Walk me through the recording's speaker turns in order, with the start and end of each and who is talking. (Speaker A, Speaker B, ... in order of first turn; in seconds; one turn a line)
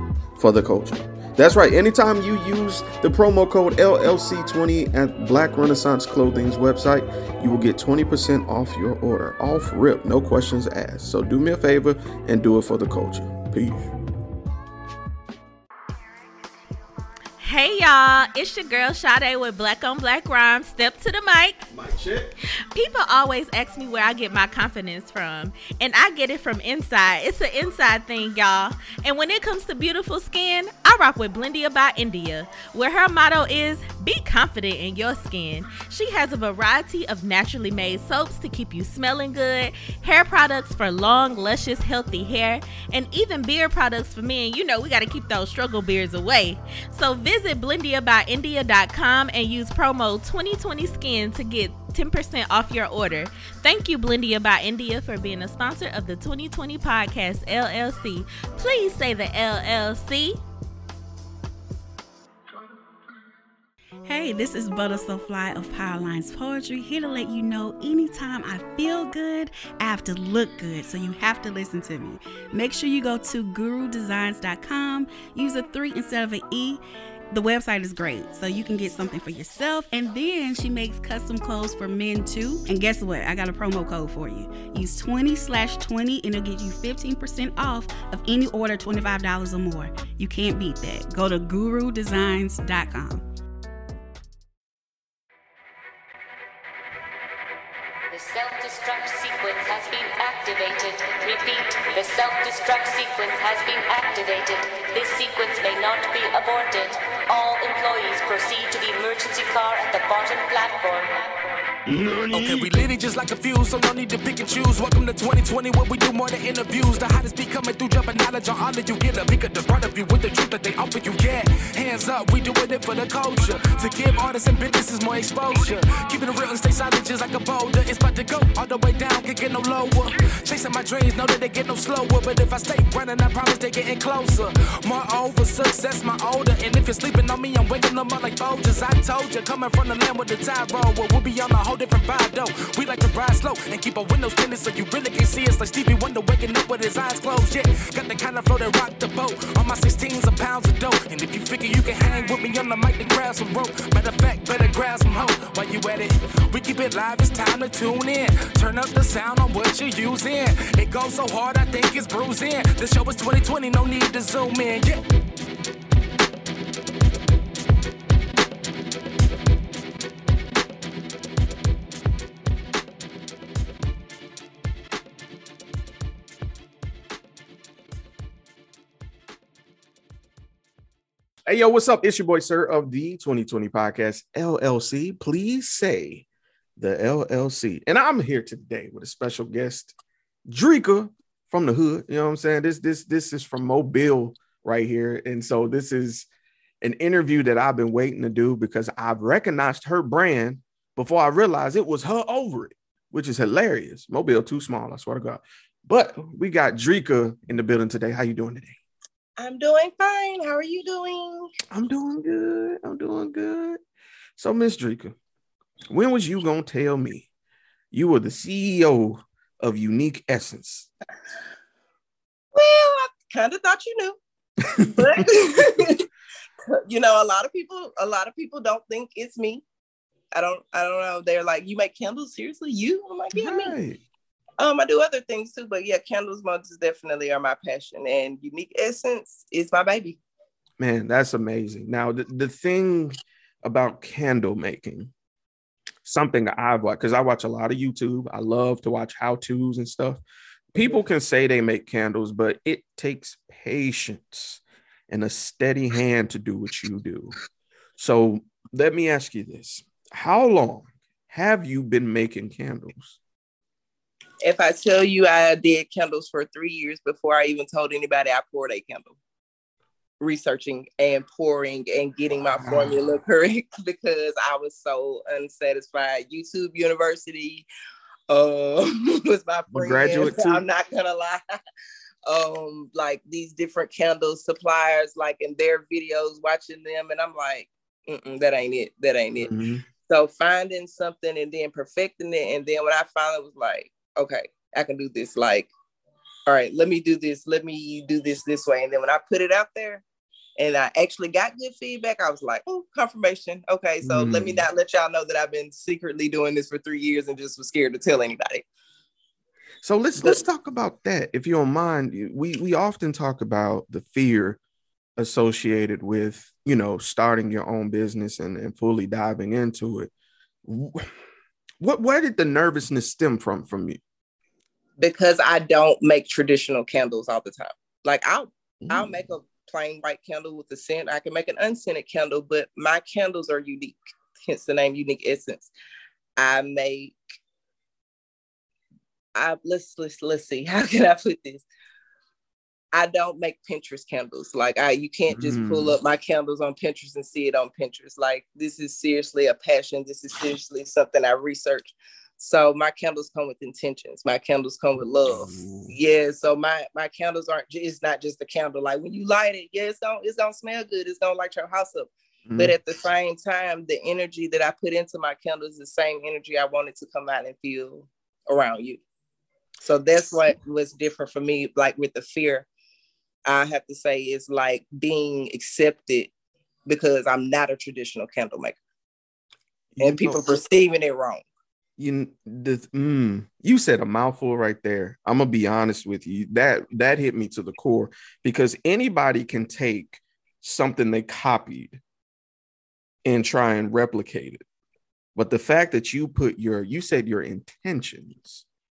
Speaker A: 0.3-13.9
Speaker B: 17.4-21.6
Speaker A: 21.7-22.3
Speaker B: 22.7-60.4
Speaker C: 64.0-93.2
Speaker D: 98.1-111.2
Speaker A: 111.9-112.7
Speaker E: 112.3-165.0
Speaker A: 181.5-186.2
Speaker A: 186.8-189.9
Speaker A: 190.5-196.3
Speaker A: 196.8-208.8
Speaker F: 209.4-211.5
Speaker A: 211.7-213.8
Speaker A: 214.4-215.2
Speaker A: 215.9-217.3
Speaker A: 217.9-220.9
Speaker F: 222.5-226.1
Speaker A: 225.0-225.3
Speaker F: 226.7-229.6
Speaker F: 230.3-233.7
Speaker A: 233.3-234.0
Speaker F: 234.6-240.2
Speaker A: 240.8-245.1
Speaker A: 246.0-257.3
Speaker A: 258.0-263.2
Speaker F: 264.4-269.1
Speaker F: 270.2-277.6
Speaker A: 272.6-273.0
Speaker F: 278.3-281.4
Speaker A: 279.7-280.6
Speaker F: 282.2-289.5
Speaker A: 289.4-289.8
Speaker F: 290.1-295.7
Speaker F: 296.5-300.0
Speaker F: 300.6-308.6
Speaker A: 304.0-304.6
Speaker A: 309.8-314.6
Speaker A: 315.2-320.1
Speaker A: 320.6-321.1
Speaker A: 321.8-324.0
Speaker F: 325.0-335.7
Speaker A: 328.8-329.2
Speaker F: 336.4-337.1
Speaker F: 339.3-341.6
Speaker F: 342.9-369.0
Speaker A: 345.3-345.9
Speaker A: 355.3-355.9
Speaker A: 362.5-362.8
Speaker F: 369.8-372.7
Speaker F: 373.5-376.3
Speaker F: 376.9-378.8
Speaker A: 379.9-380.4
Speaker F: 380.0-381.4
Speaker A: 382.0-392.0
Speaker A: 393.2-394.6
Speaker A: 395.3-398.6